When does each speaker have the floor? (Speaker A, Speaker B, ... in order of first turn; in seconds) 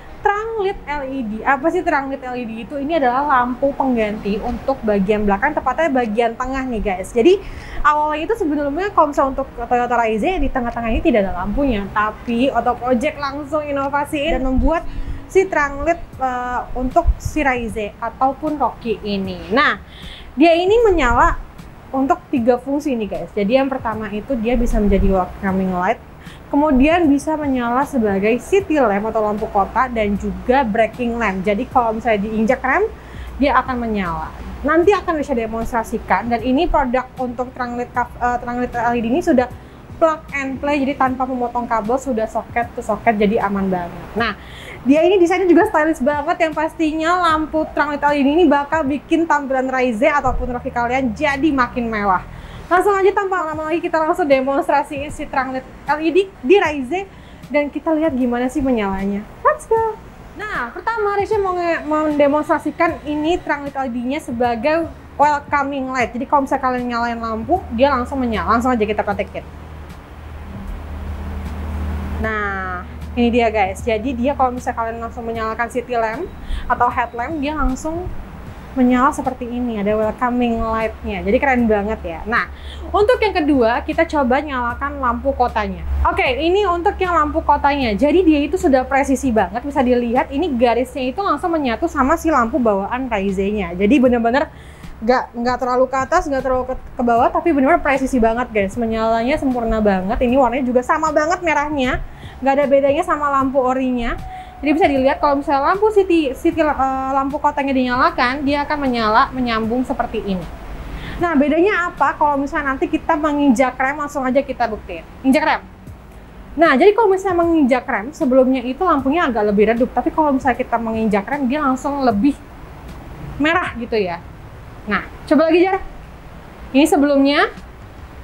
Speaker A: 0.2-19.7, 20.4-21.3, 21.9-32.9, 33.4-44.3, 44.9-69.5, 72.2-78.1, 78.8-94.5, 95.0-110.5, 111.2-115.6, 116.6-122.3, 123.4-124.2, 124.9-125.8, 126.7-127.5